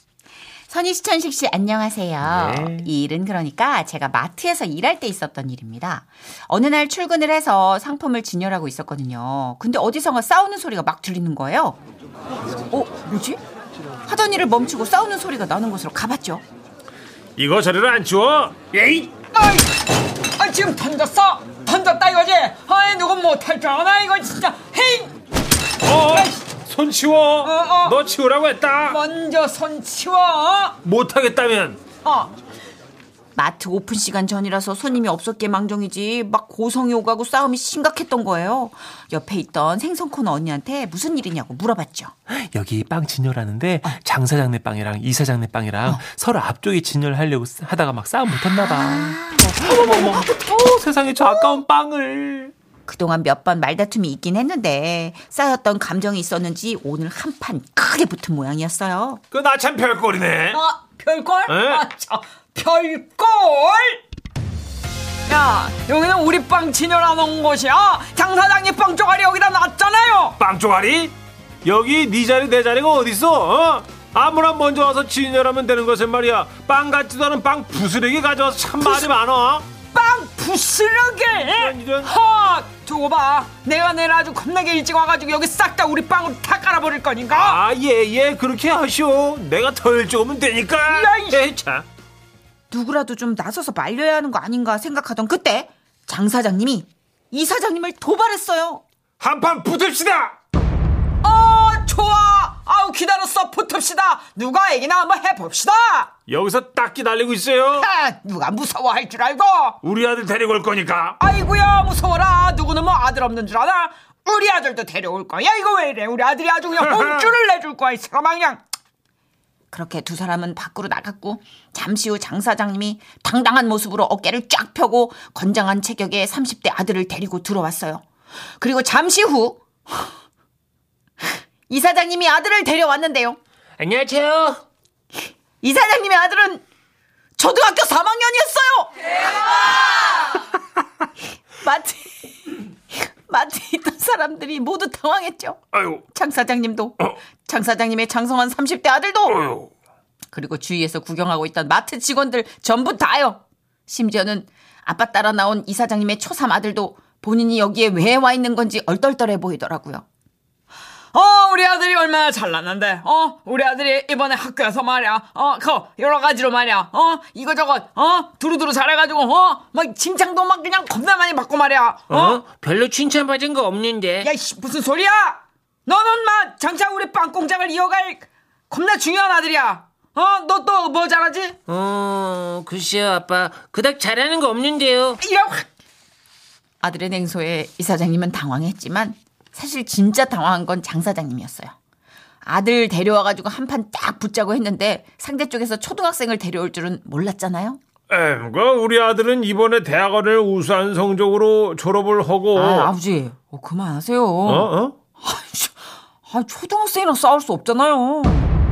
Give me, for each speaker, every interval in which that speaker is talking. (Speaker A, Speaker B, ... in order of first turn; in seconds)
Speaker A: 0.7-11.8, 12.7-13.4, 14.1-16.4, 33.4-42.1, 48.6-50.2, 52.9-59.2, 92.7-98.8, 119.7-128.0, 128.6-130.0, 131.7-133.4, 135.6-136.6, 137.4-139.1, 141.6-149.5, 150.3-160.0, 186.8-191.7, 192.4-197.8, 202.5-208.4
Speaker B: 2.2-2.9, 17.4-19.1, 25.8-29.0, 30.8-31.8, 42.3-52.5, 59.3-60.6, 61.5-61.8, 70.4-71.1, 71.6-79.7, 81.4-82.2, 87.3-91.8, 99.2-100.3, 106.3-107.9, 109.8-111.2, 116.8-117.2, 145.7-146.0, 149.3-149.7, 198.1-202.9, 204.4-204.9
Speaker C: 19.3-19.7, 20.4-25.1, 26.1-26.4, 27.4-27.9, 28.9-30.7, 60.5-64.0, 65.3-70.3, 79.9-87.6, 90.9-91.4, 101.2-106.1, 107.8-109.8, 111.2-118.6, 161.1-172.4, 174.2-181.6, 185.2-185.6
Speaker D: 133.8-134.6, 172.1-174.3, 181.7-185.2